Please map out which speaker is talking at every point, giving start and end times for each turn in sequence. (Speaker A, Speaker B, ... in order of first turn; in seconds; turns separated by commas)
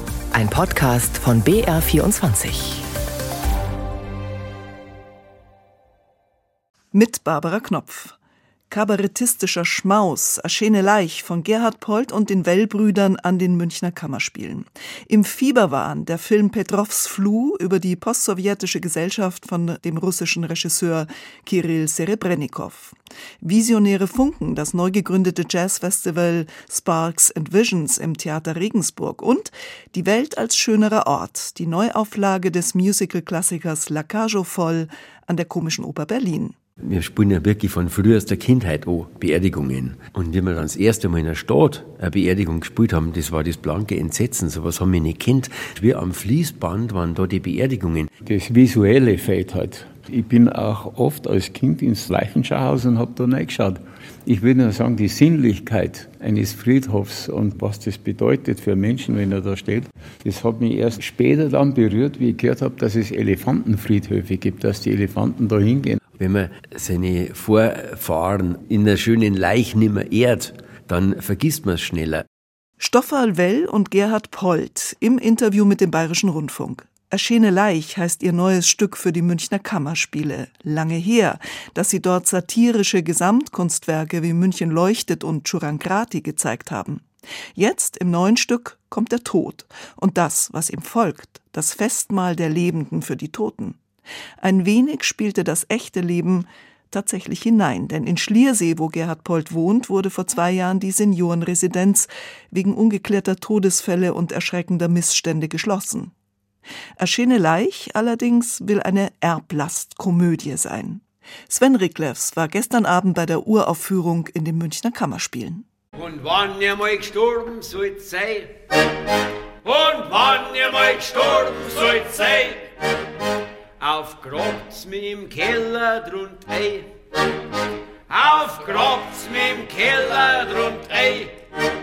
Speaker A: 0.3-2.9, Speaker B: 6.9-8.2, Speaker B: 8.7-36.5, Speaker C: 36.8-48.1, Speaker D: 48.2-66.0, Speaker C: 66.1-72.2, Speaker B: 72.8-93.8, Speaker B: 94.4-106.1, Speaker B: 107.0-115.6, Speaker E: 115.9-118.5, Speaker E: 119.6-122.7, Speaker E: 123.8-126.9, Speaker E: 128.1-131.4